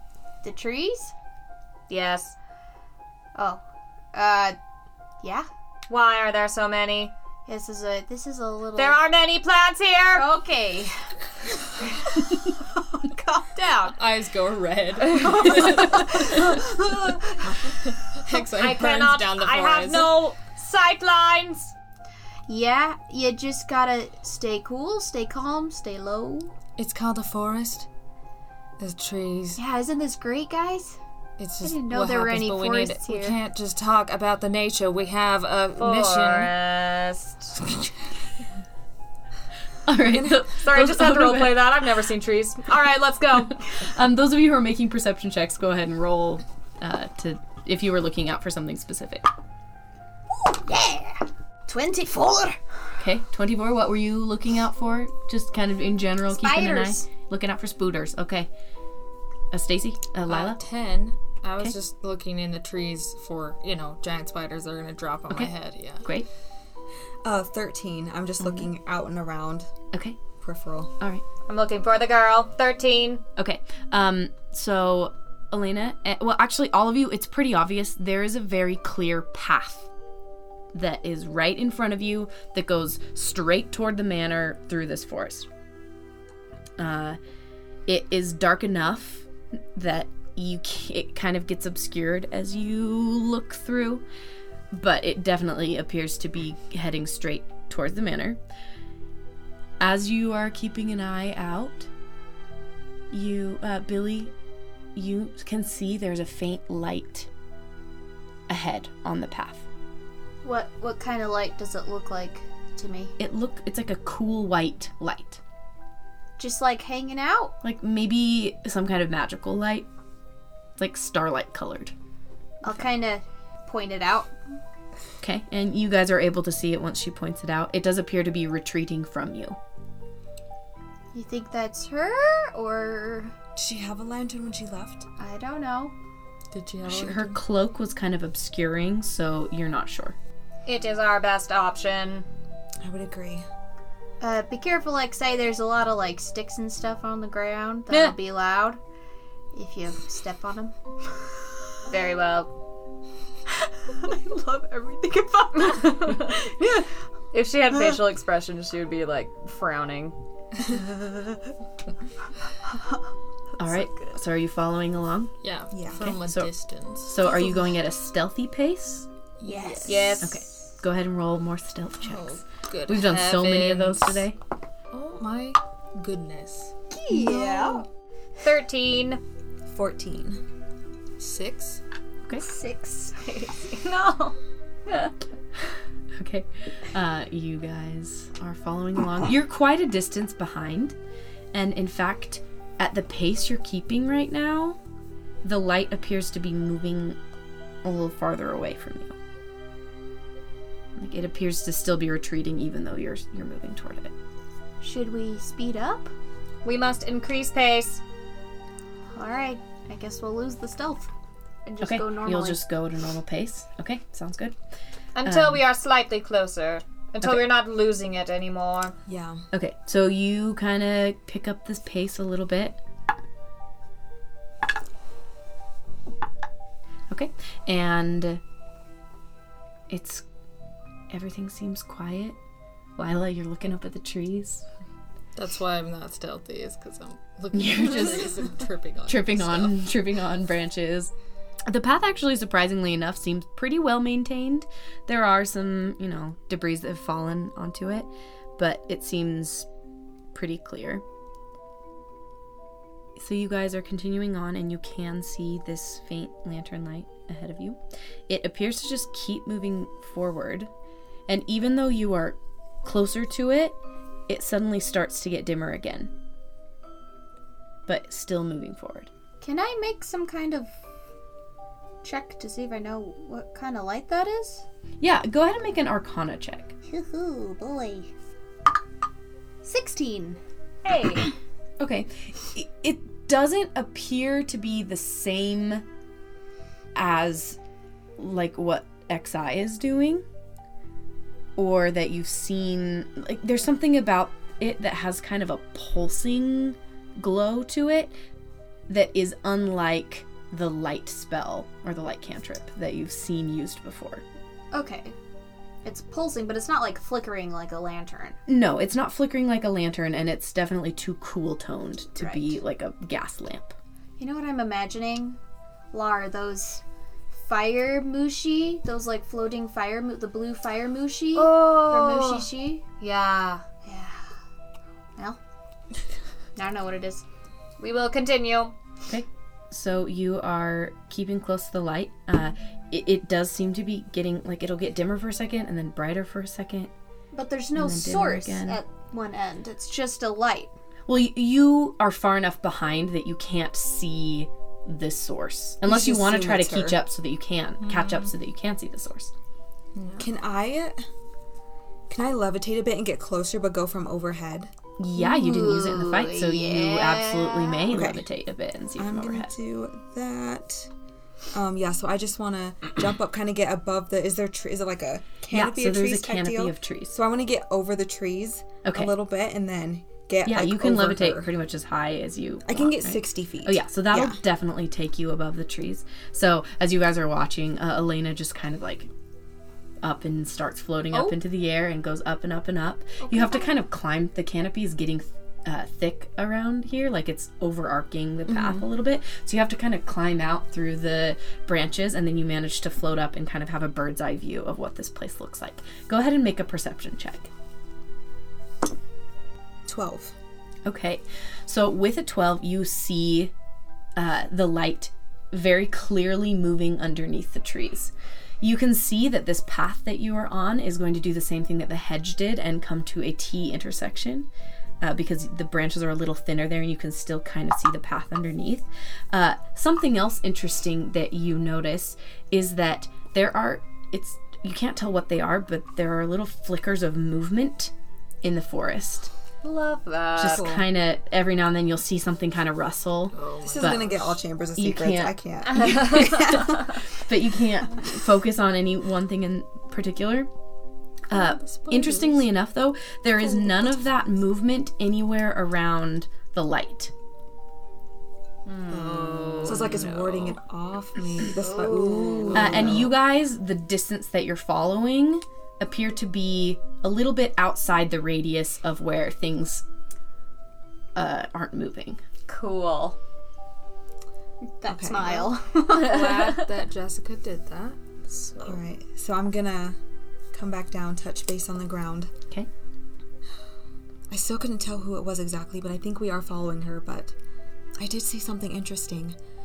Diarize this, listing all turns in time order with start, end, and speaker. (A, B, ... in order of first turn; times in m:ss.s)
0:00.4-0:01.1 A
0:01.9-0:02.4 B
0:03.4-0:03.6 A
0:04.1-0:04.6 A
0:05.2-0:05.5 A
0:05.9-0:07.1 B
0:07.5-0:09.0 A
0:08.8-0:10.3 B
0:10.1-0:11.0 A
0:11.8-0:14.0 A
0:14.0-0:16.6 C
0:15.4-0:17.8 A
0:17.8-0:20.2 C
0:18.3-0:21.8 B
0:22.5-0:26.5 A
0:26.8-0:27.9 C
0:28.8-0:29.6 C
0:29.6-0:31.0 A
0:31.4-0:36.5 C
0:31.6-0:33.4 A
0:35.8-0:37.6 B
0:39.9-0:41.7 D
0:40.5-0:43.6 B
0:43.7-0:49.3 D
0:50.4-0:52.6 A
0:53.0-0:58.5 D
0:56.3-0:57.1 A
0:59.5-1:00.6 D
1:00.3-1:06.1 C
1:05.3-1:06.3 D
1:07.2-1:09.7 E
1:08.4-1:08.7 D
1:09.9-1:10.2 D
1:10.4-1:10.9 E
1:11.5-1:13.2 B
1:13.4-1:19.9 D
1:20.7-1:25.5 D
1:26.8-1:27.2 D
1:27.9-1:34.0 D
1:34.7-1:38.4 D
1:39.8-1:41.9 D
1:43.1-1:44.3 D
1:45.0-1:47.3 D
1:48.5-1:49.7 D
1:50.4-1:53.1 A
1:53.2-1:55.4 D
1:56.4-1:57.5 A
1:57.6-1:59.9 D
2:00.8-2:01.9 D
2:02.6-2:04.4 A
2:05.2-2:09.6 D
2:11.1-2:13.3 A
2:13.6-2:15.1 E
2:15.2-2:15.9 A
2:16.5-2:17.4 C
2:16.8-2:20.2 D
2:20.7-2:22.3 B
2:22.8-2:23.5 E
2:24.2-2:28.8 A
2:27.9-2:28.2 D
2:29.5-2:30.8 A
2:31.9-2:32.5 B
2:33.9-2:36.9 A
2:35.6-2:36.5 B
2:37.3-2:40.2 B
2:43.6-2:45.3 D
2:43.6-2:43.9 A
2:45.4-2:47.3 C
2:45.7-2:46.1 E
2:45.9-2:49.1 D
2:49.4-2:50.2 C
2:49.4-2:50.4 A
2:49.9-2:50.3 B
2:50.2-2:54.4 D
2:52.0-2:54.2 C
2:54.9-2:56.7 C
2:56.9-2:57.9 A
2:57.1-2:57.8 E
2:58.4-2:59.2 B
2:59.7-3:00.4 E
3:01.2-3:01.8 C
3:02.4-3:03.7 A
3:03.3-3:04.4 B
3:06.2-3:11.0 D
3:11.5-3:14.8 D
3:15.4-3:17.2 D
3:17.8-3:19.2 D
3:21.0-3:24.1 D
3:24.8-3:26.1 A
3:26.6-3:28.0 B
3:29.1-3:31.1 A
3:31.7-3:32.6 A
3:31.8-3:34.6 D
3:35.2-3:39.0 B
3:35.2-3:35.6 D
3:39.1-3:39.4 E
3:39.5-3:42.8 D
3:47.1-3:48.4 D
3:49.9-3:50.2 D
3:51.1-3:52.4 D
3:53.0-3:54.7 D
3:55.4-3:59.8 C
3:57.5-3:58.5 D
3:59.1-4:01.1 D
4:01.7-4:09.7 D
4:10.3-4:11.0 D
4:13.2-4:20.7 D
4:21.3-4:23.8 D
4:24.3-4:26.1 D
4:27.9-4:29.1 D
4:29.4-4:30.7 A
4:32.0-4:34.6 A
4:35.0-4:36.8 D
4:36.9-4:38.1 A
4:39.6-4:40.4 A
4:40.8-4:41.3 B
4:41.8-4:45.8 D
4:47.0-4:47.6 D
4:48.2-4:50.2 D
4:51.6-4:58.2 D
4:58.9-5:04.2 D
5:04.7-5:05.2 A
5:05.8-5:08.4 A
5:08.5-5:13.8 D
5:12.2-5:12.5 A
5:14.2-5:15.4 A
5:15.9-5:16.8 A
5:17.3-5:22.8 A
5:21.4-5:23.6 B
5:23.8-5:24.2 A
5:26.6-5:27.2 A
5:27.8-5:28.8 B
5:29.1-5:36.9 D
5:37.3-5:40.7 A
5:37.8-5:38.8 D
5:41.1-5:49.3 D
5:45.8-5:47.0 E
5:47.8-5:48.3 C
5:50.0-5:50.3 C
5:50.2-5:51.0 E
5:52.1-5:54.7 E
5:55.0-5:59.5 D
5:55.2-5:57.9 A
5:57.9-5:58.3 E
5:59.0-6:00.9 E
6:01.5-6:11.5 E
6:05.5-6:07.2 D
6:08.8-6:09.1 D
6:10.4-6:19.1 D
6:12.6-6:14.4 E
6:20.0-6:37.5 D
6:23.2-6:23.7 A
6:28.5-6:28.9 E
6:39.9-6:40.3 E
6:40.8-6:43.5 D
6:44.2-6:54.5 D
6:55.0-7:07.9 D
7:08.4-7:09.3 D
7:09.6-7:10.7 B
7:10.4-7:14.2 D
7:10.5-7:10.8 E
7:13.3-7:14.4 C
7:13.6-7:16.9 E
7:14.8-7:20.5 D
7:15.7-7:16.6 B
7:21.3-7:27.1 D
7:21.3-7:22.4 C
7:28.7-7:30.5 B
7:28.9-7:30.0 C
7:29.6-7:33.1 E
7:31.5-7:32.8 A
7:32.5-7:39.8 D
7:41.2-7:42.2 D
7:42.5-7:43.2 B
7:44.8-7:46.7 A
7:44.9-7:45.5 E
7:45.9-7:48.0 C
7:48.3-7:48.6 B
7:48.6-7:50.0 E
7:50.5-7:52.3 E
7:54.3-7:57.4 E
7:58.0-7:59.4 E